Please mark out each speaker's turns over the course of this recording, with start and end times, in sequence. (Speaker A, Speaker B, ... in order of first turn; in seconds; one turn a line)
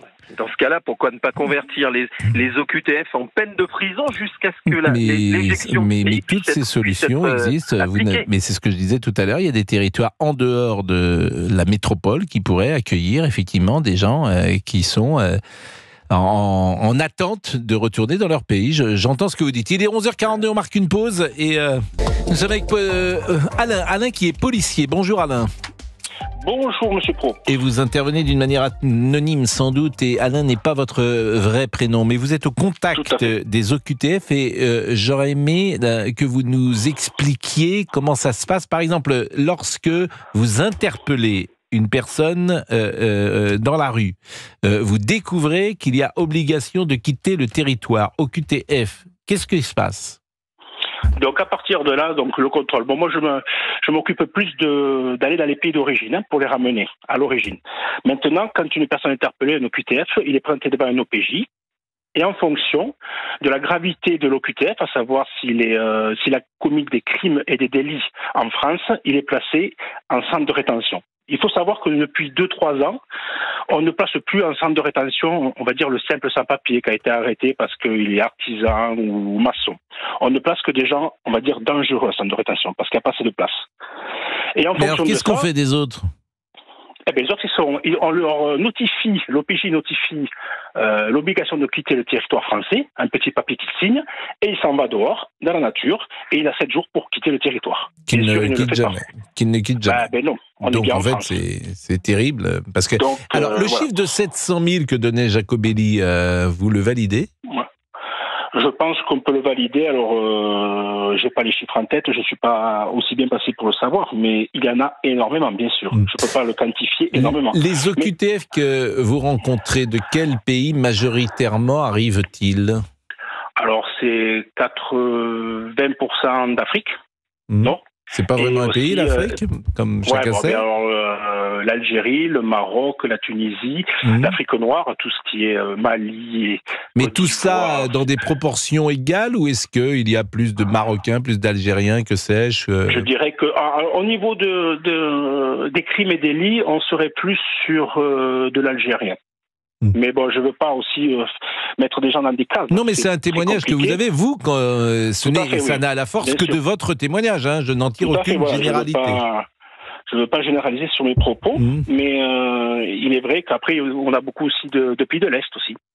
Speaker A: 0.3-8.2
Speaker B: 4.7-15.4
Speaker B: 16.1-25.5
Speaker C: 26.4-27.5
Speaker B: 27.5-50.2
Speaker C: 32.9-33.3
Speaker C: 51.2-61.5
Speaker C: 62.1-73.0
Speaker C: 73.7-83.6
Speaker C: 84.5-85.5
Speaker B: 84.8-86.1
Speaker C: 87.1-99.0
Speaker B: 98.0-100.0
Speaker C: 99.8-101.3
Speaker B: 100.6-107.3
Speaker C: 103.0-103.9
Speaker C: 108.5-118.1
Speaker B: 117.1-122.8
Speaker C: 123.6-126.9
Speaker B: 127.5-130.6
Speaker C: 128.3-129.4
Speaker C: 130.1-138.1
Speaker B: 134.0-134.4
Speaker B: 136.9-143.1
Speaker C: 142.9-149.2
Speaker C: 149.9-154.0
Speaker B: 152.7-159.2
Speaker C: 155.2-156.6
Speaker C: 158.0-159.4
Speaker C: 160.1-165.8
Speaker B: 161.6-161.8